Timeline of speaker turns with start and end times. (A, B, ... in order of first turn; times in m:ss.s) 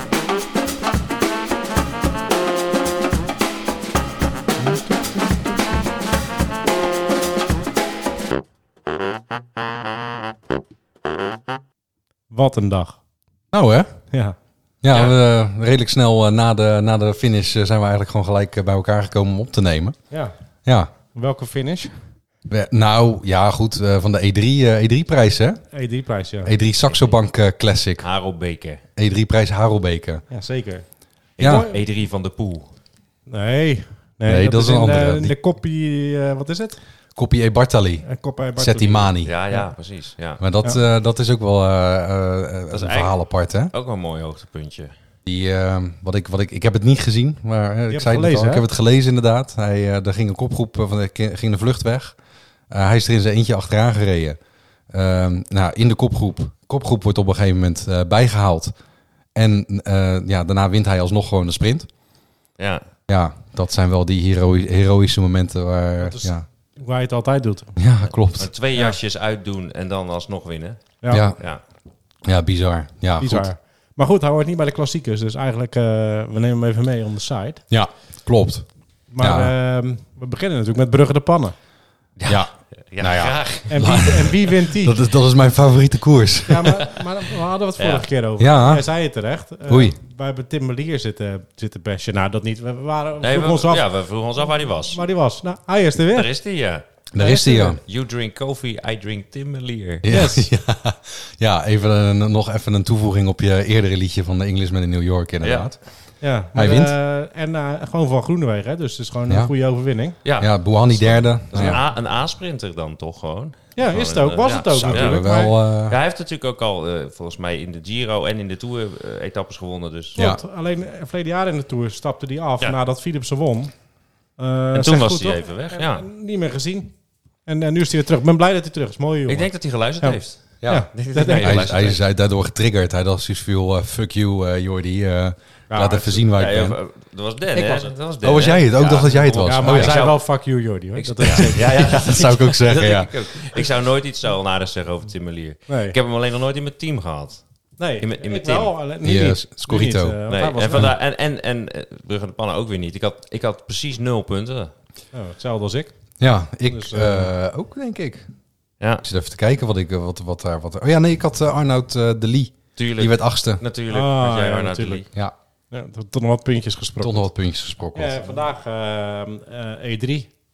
0:12.3-0:13.0 A
0:13.5-0:13.9 B
0:14.8-0:20.0 B
0:14.9-0:15.2 C
0:20.7-0:20.9 B
0:21.1-0:21.9 A
0:22.5-0:25.6 B
0:25.7-0:26.5 A
0:26.4-0:28.1 B
0:26.8-0:27.2 C
0:28.0-0:28.8 C
0:29.0-0:30.2 B
0:30.3-0:30.8 A
0:31.4-0:32.7 C
0:31.4-0:31.6 B
0:31.4-0:31.9 A
0:33.3-0:36.8 A
0:34.3-0:35.4 B
0:37.2-0:39.3 B
0:38.0-0:39.7 A
0:39.2-0:40.4 C
0:40.4-0:43.7 B
0:42.7-0:44.9 C
0:45.3-0:52.2 B
0:47.9-0:48.7 A
0:52.7-0:54.4 B
0:54.9-0:58.7 B
0:59.4-1:01.9 B
1:02.6-1:02.8 C
1:03.1-1:06.4 B
1:06.0-1:07.8 A
1:07.8-1:08.5 B
1:08.2-1:11.6 C
1:11.1-1:11.4 B
1:12.2-1:13.5 B
1:13.2-1:17.6 A
1:17.7-1:18.7 B
1:19.1-1:21.5 A
1:19.2-1:19.5 B
1:22.2-1:24.5 C
1:22.3-1:27.1 B
1:23.7-1:25.0 A
1:26.5-1:33.9 A
1:27.8-1:28.1 C
1:28.4-1:28.9 B
1:29.7-1:30.0 B
1:33.2-1:35.0 C
1:34.8-1:36.3 A
1:36.0-1:36.8 C
1:37.1-1:37.8 B
1:37.2-1:37.8 A
1:37.6-1:40.0 C
1:40.0-1:45.8 B
1:40.1-1:40.5 A
1:45.4-1:45.8 C
1:46.2-1:50.2 A
1:46.5-1:47.0 B
1:50.2-2:00.2 C
1:50.4-1:51.8 B
1:53.8-1:55.6 A
1:54.9-1:56.0 B
2:00.2-2:03.7 A
2:04.4-2:06.9 A
2:04.7-2:06.1 C
2:07.5-2:11.8 A
2:09.3-2:12.0 C
2:10.6-2:16.8 B
2:15.7-2:16.3 A
2:16.3-2:20.3 C
2:17.6-2:17.8 A
2:18.2-2:20.0 B
2:19.4-2:22.1 A
2:21.0-2:28.7 C
2:21.2-2:23.1 B
2:25.7-2:26.0 A
2:27.8-2:31.0 A
2:29.0-2:30.2 B
2:30.3-2:34.7 C
2:35.1-2:35.9 A
2:36.2-2:38.3 B
2:36.7-2:37.3 A
2:39.0-2:43.6 B
2:42.8-2:45.1 C
2:43.9-2:45.1 A
2:45.7-2:47.3 A
2:47.0-2:48.4 B
2:48.0-2:50.3 A